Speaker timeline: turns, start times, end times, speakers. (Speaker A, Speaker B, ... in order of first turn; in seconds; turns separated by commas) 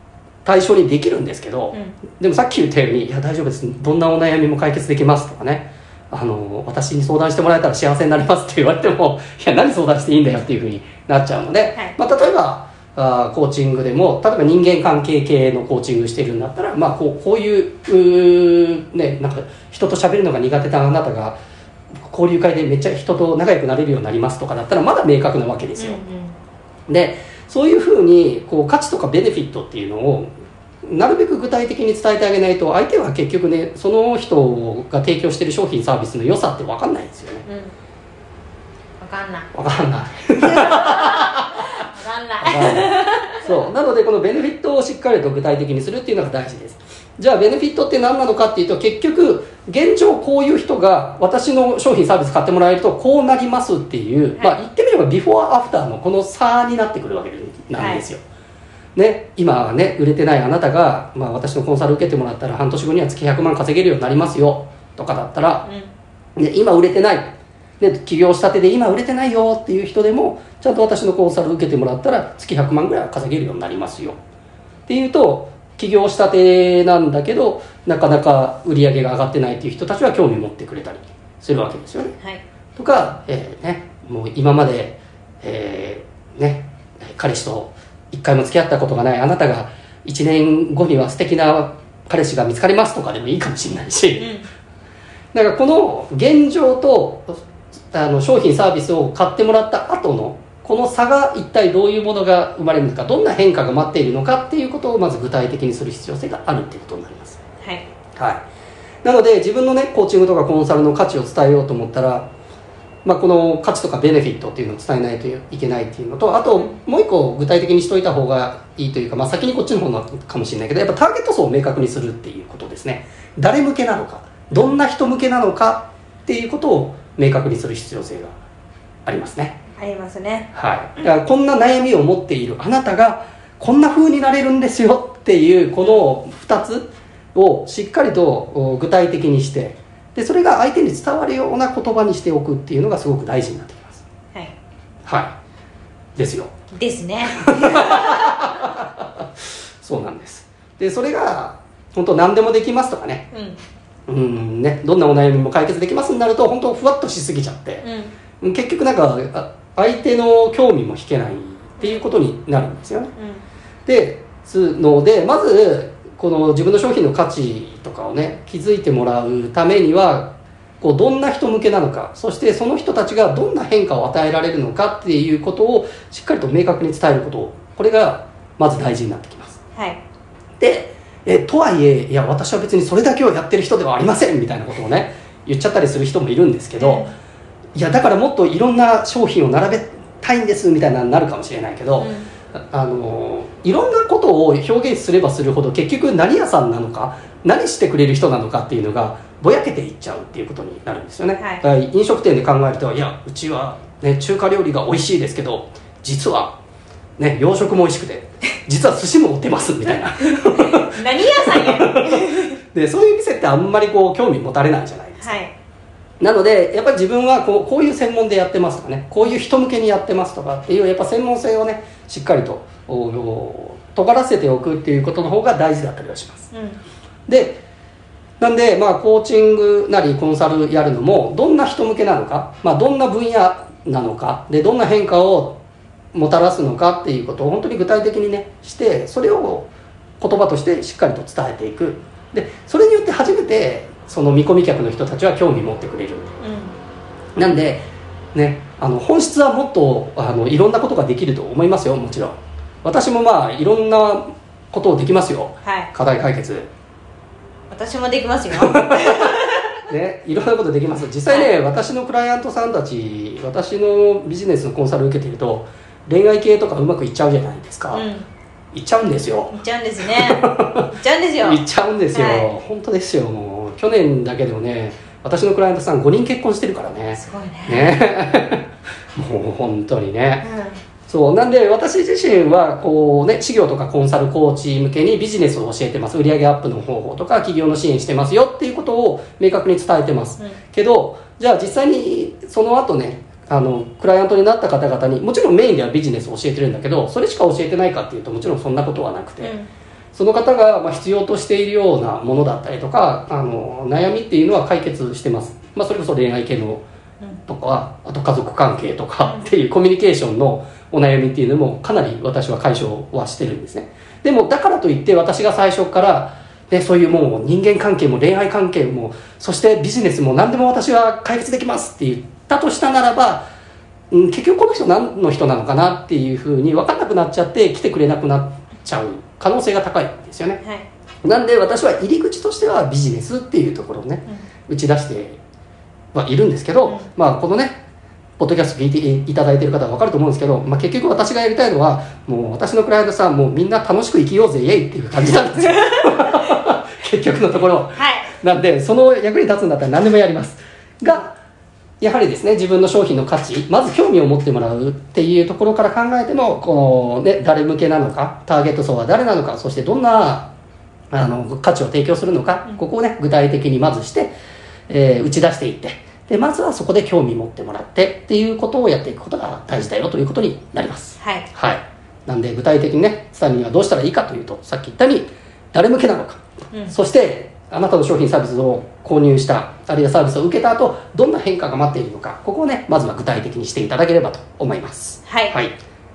Speaker A: 0.5-21.4, Speaker B: 1.7-2.0, Speaker A: 22.0-26.0, Speaker B: 25.8-26.4, Speaker A: 26.9-30.3, Speaker A: 30.9-37.5, Speaker B: 37.5-37.7, Speaker B: 39.0-39.5, Speaker A: 39.5-41.7, Speaker B: 40.4-43.5, Speaker A: 42.4-58.2, Speaker B: 57.7-58.0, Speaker A: 59.0-65.7, Speaker B: 65.7-65.9, Speaker A: 66.4-74.2, Speaker A: 74.9-82.1, Speaker A: 82.8-94.3, Speaker B: 94.2-94.5, Speaker A: 95.3-107.4, Speaker A: 108.2-108.4, Speaker A: 109.0-112.3, Speaker A: 113.0-128.3, Speaker A: 129.1-129.6, Speaker B: 129.8-130.5, Speaker A: 130.5-144.0, Speaker A: 145.1-145.3, Speaker A: 146.2-146.5, Speaker B: 146.7-148.3, Speaker A: 147.5-149.2, Speaker A: 149.8-153.3, Speaker B: 153.3-153.6, Speaker A: 154.1-157.9, Speaker B: 157.8-158.2, Speaker A: 158.4-163.1, Speaker B: 163.2-163.4, Speaker A: 163.9-179.6, Speaker B: 179.8-180.0, Speaker A: 180.6-187.1, Speaker B: 186.8-187.1, Speaker A: 187.8-206.6, Speaker B: 192.0-192.3, Speaker B: 201.4-201.6, Speaker A: 207.2-215.4, Speaker B: 210.6-212.5, Speaker B: 215.2-215.5, Speaker A: 216.2-226.5, Speaker B: 226.5-226.8, Speaker A: 227.3-227.6, Speaker A: 228.4-235.6, Speaker A: 236.1-246.3, Speaker B: 246.4-246.8, Speaker A: 247.4-256.7, Speaker B: 255.6-255.9, Speaker B: 257.7-259.7, Speaker A: 258.6-268.1, Speaker B: 267.9-268.3, Speaker A: 268.7-269.5, Speaker B: 269.5-271.6, Speaker A: 270.2-270.9, Speaker A: 271.4-278.6, Speaker B: 272.1-272.5, Speaker B: 277.2-278.0, Speaker A: 279.2-280.5, Speaker B: 280.4-280.8, Speaker A: 281.1-299.6, Speaker B: 299.4-299.7, Speaker A: 300.1-306.9, Speaker A: 307.5-323.4, Speaker B: 309.2-309.5, Speaker A: 324.1-330.6, Speaker B: 330.6-330.9, Speaker A: 331.2-335.4, Speaker A: 336.1-337.8, Speaker A: 338.4-351.4, Speaker B: 345.8-346.4, Speaker B: 348.0-348.3, Speaker A: 352.0-360.5, Speaker A: 361.1-364.3, Speaker A: 364.9-385.8, Speaker B: 371.2-371.5, Speaker B: 385.3-385.6